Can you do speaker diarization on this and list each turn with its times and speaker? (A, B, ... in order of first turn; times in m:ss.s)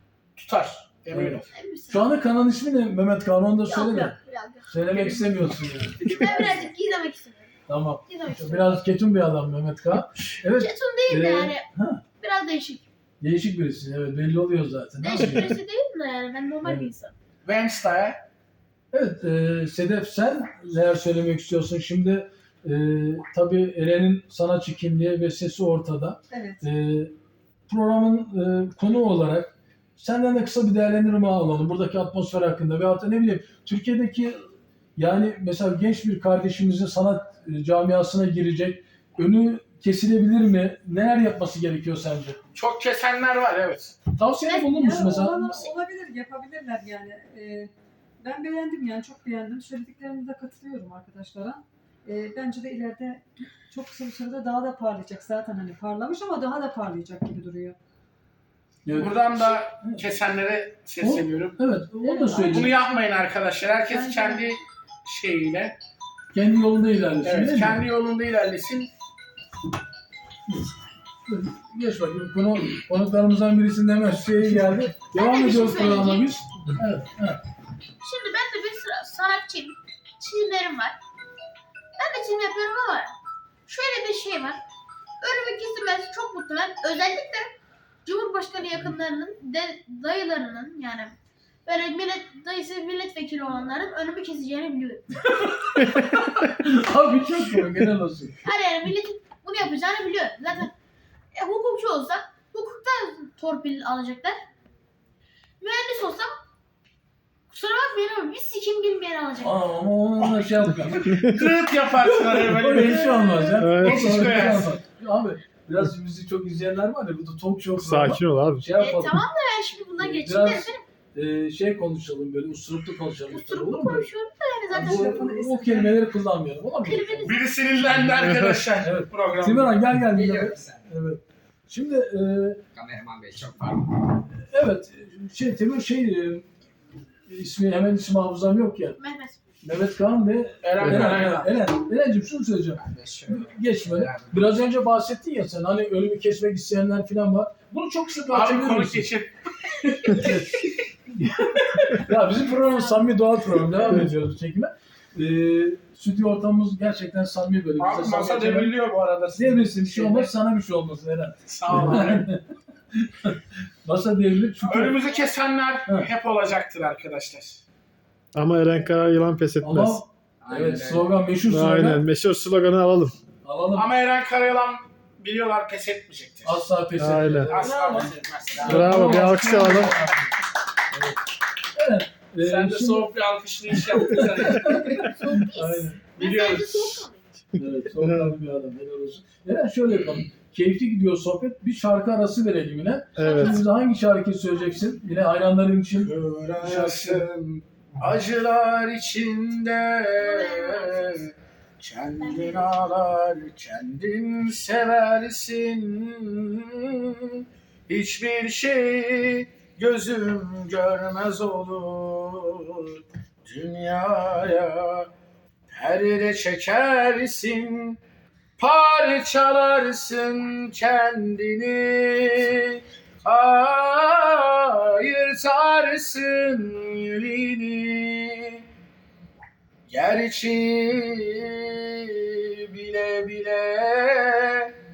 0:00.4-0:01.5 A
0:01.1-0:04.2 B
0:01.5-0:02.0 C
0:03.7-0:05.2 C
0:04.7-0:06.3 B
0:06.1-0:07.5 C
0:07.7-0:12.0 B
0:08.1-0:08.8 C
0:10.6-0:11.7 C
0:12.2-0:12.9 C
0:13.2-0:15.6 B
0:15.0-0:17.1 C
0:16.6-0:16.9 B
0:17.4-0:18.2 A
0:18.9-0:27.1 B
0:26.3-0:26.7 D
0:27.7-0:34.4 B
0:35.0-0:42.4 B
0:42.6-0:44.0 A
0:44.2-0:45.7 B
0:44.6-0:57.8 D
0:58.9-1:00.0 B
0:59.0-1:01.6 A
1:01.0-1:02.7 B
1:02.0-1:02.8 D
1:02.5-1:05.8 A
1:03.9-1:04.5 D
1:06.3-1:07.8 B
1:07.2-1:08.9 A
1:11.3-1:17.4 B
1:15.1-1:16.3 C
1:18.0-1:21.0 C
1:22.0-1:23.2 C
1:23.7-1:24.6 C
1:25.2-1:31.2 C
1:31.7-1:35.1 C
1:35.3-1:38.4 B
1:38.4-1:40.7 C
1:41.4-1:44.4 C
1:45.6-1:46.3 C
1:47.5-1:49.6 C
1:49.4-1:51.2 B
1:51.1-1:51.5 E
1:51.2-1:54.8 A
1:52.0-1:59.2 B
1:53.6-1:54.4 E
1:57.8-1:58.7 E
1:58.8-2:00.8 C
2:00.0-2:04.1 B
2:03.3-2:05.1 C
2:04.7-2:06.0 D
2:04.7-2:07.3 B
2:06.8-2:07.5 C
2:07.2-2:09.7 A
2:08.2-2:08.6 E
2:08.8-2:12.6 B
2:10.0-2:10.9 F
2:12.7-2:13.9 F
2:14.3-2:16.5 B
2:17.3-2:19.0 B
2:19.0-2:19.4 C
2:19.6-2:29.1 B
2:20.6-2:21.5 A
2:20.9-2:21.1 E
2:22.8-2:24.5 F
2:28.3-2:30.4 A
2:30.0-2:38.7 B
2:37.8-2:40.3 A
2:39.4-2:45.0 B
2:41.5-2:42.3 A
2:44.6-2:47.6 A
2:48.4-2:50.0 E
2:49.6-2:52.0 B
2:50.4-2:51.1 F
2:51.5-2:53.2 E
2:53.4-2:53.9 B
2:53.8-2:56.6 A
2:56.4-3:00.3 B
2:57.0-2:57.6 E
2:57.5-2:59.2 A
2:58.6-3:00.0 E
3:01.7-3:03.1 B
3:02.4-3:04.9 A
3:03.7-3:06.9 B
3:04.7-3:07.2 C
3:06.2-3:06.7 A
3:07.6-3:08.4 E
3:07.6-3:17.3 B
3:13.2-3:13.6 E
3:16.0-3:35.1 A
3:20.2-3:21.3 C
3:22.2-3:22.7 C
3:35.7-3:38.0 A
3:38.6-3:48.6 A
3:49.9-3:54.7 A